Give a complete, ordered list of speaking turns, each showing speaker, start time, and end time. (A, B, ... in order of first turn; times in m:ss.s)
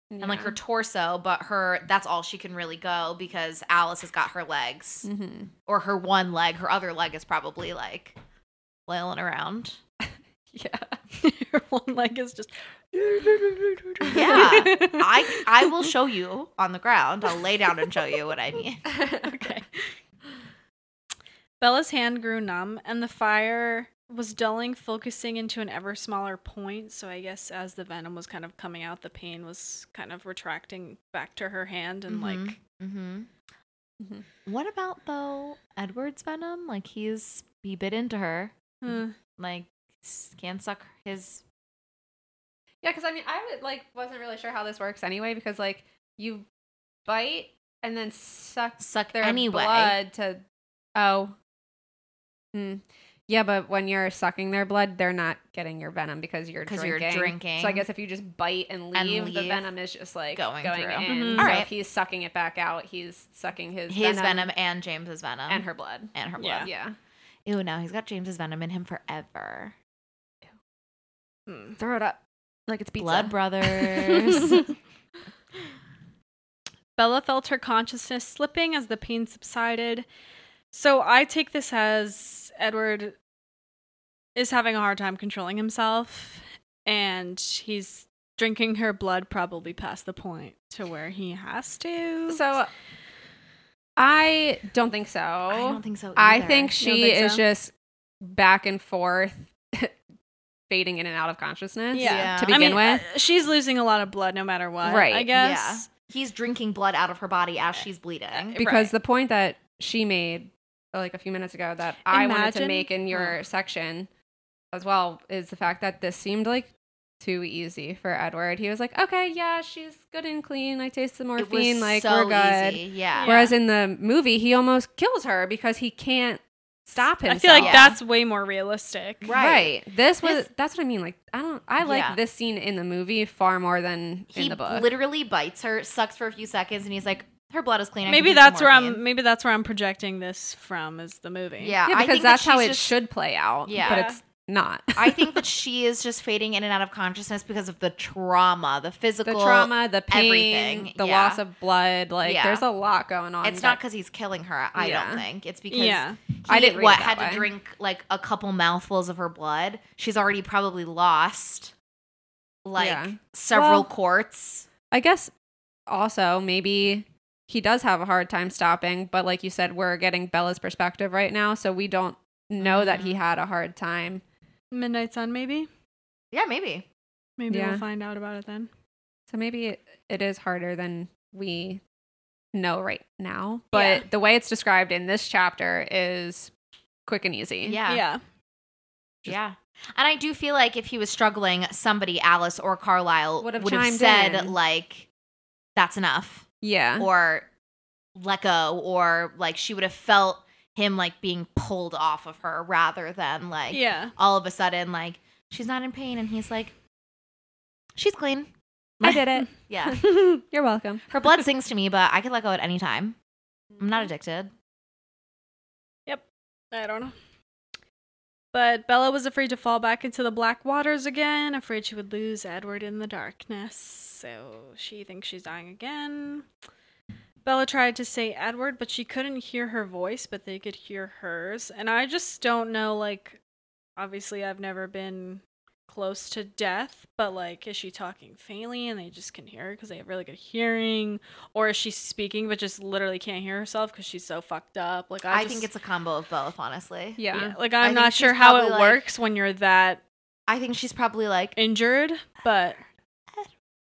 0:00.1-0:00.6 A
0:00.2-0:05.1 B
0:05.0-0:05.5 A
0:05.6-0:08.2 B
0:08.9-0:09.8 B
0:10.5-0:11.0 A
0:11.1-0:15.8 C
0:14.0-0:14.6 A
0:14.1-0:18.8 B
0:18.9-0:19.3 A
0:19.2-0:19.8 C
0:21.6-0:32.6 C
0:32.1-0:33.3 B
0:34.4-0:41.4 B
0:38.8-0:39.2 C
0:42.8-0:46.4 A
0:47.0-0:50.4 A
0:48.8-0:50.0 B
0:51.0-0:51.3 A
0:52.5-1:04.5 A
0:56.6-0:57.8 B
0:58.9-0:59.6 B
1:00.3-1:01.7 B
1:01.0-1:01.5 C
1:03.9-1:06.7 B
1:05.5-1:06.9 A
1:06.4-1:06.7 C
1:07.4-1:09.7 B
1:11.5-1:11.8 C
1:11.8-1:14.6 A
1:13.0-1:14.6 B
1:17.0-1:20.0 C
1:20.7-1:23.2 C
1:24.4-1:32.5 C
1:32.3-1:32.7 A
1:34.0-1:37.7 A
1:35.5-1:36.7 B
1:36.8-1:37.4 C
1:38.2-1:39.9 A
1:40.7-1:43.0 A
1:41.9-1:45.9 C
1:42.0-1:42.8 B
1:44.8-1:45.3 A
1:45.3-1:48.6 B
1:48.4-1:48.9 C
1:48.6-1:54.1 A
1:52.1-1:53.3 C
1:54.7-2:08.0 A
2:01.4-2:03.3 B
2:03.1-2:03.5 C
2:07.2-2:09.3 C
2:07.6-2:08.0 B
2:09.2-2:10.4 B
2:09.3-2:14.9 A
2:11.8-2:12.2 B
2:14.3-2:19.0 B
2:18.0-2:21.8 C
2:21.6-2:22.9 B
2:21.8-2:25.3 A
2:23.6-2:24.0 B
2:23.8-2:24.2 C
2:25.0-2:31.4 B
2:29.2-2:33.8 A
2:32.2-2:32.6 B
2:33.4-2:41.7 B
2:34.8-2:35.2 A
2:35.7-2:36.2 C
2:36.5-2:37.5 A
2:42.6-2:44.7 B
2:42.8-2:43.9 A
2:44.9-2:45.3 A
2:45.9-2:54.2 A
2:52.6-2:53.2 B
2:54.7-2:55.7 C
2:56.3-2:56.8 B
2:57.4-2:58.7 C
2:57.5-2:57.8 A
2:59.3-3:01.8 A
3:02.5-3:06.5 A
3:03.7-3:04.0 C
3:07.0-3:07.8 A
3:07.6-3:08.0 B
3:07.9-3:08.2 C
3:09.2-3:15.1 B
3:13.4-3:14.6 A
3:15.8-3:16.5 B
3:16.6-3:17.1 A
3:17.0-3:17.5 B
3:18.1-3:26.7 B
3:23.7-3:24.1 C
3:28.0-3:28.5 B
3:29.0-3:30.1 B
3:29.0-3:31.0 A
3:30.0-3:30.3 C
3:31.1-3:33.2 B
3:33.8-3:34.5 B
3:36.1-3:37.1 C
3:38.5-3:46.4 C
3:47.4-3:53.4 C
3:54.0-4:05.7 C
4:05.3-4:07.2 B
4:07.2-4:07.6 A
4:07.3-4:10.0 C
4:07.8-4:09.0 B
4:10.5-4:11.6 B
4:11.6-4:12.8 C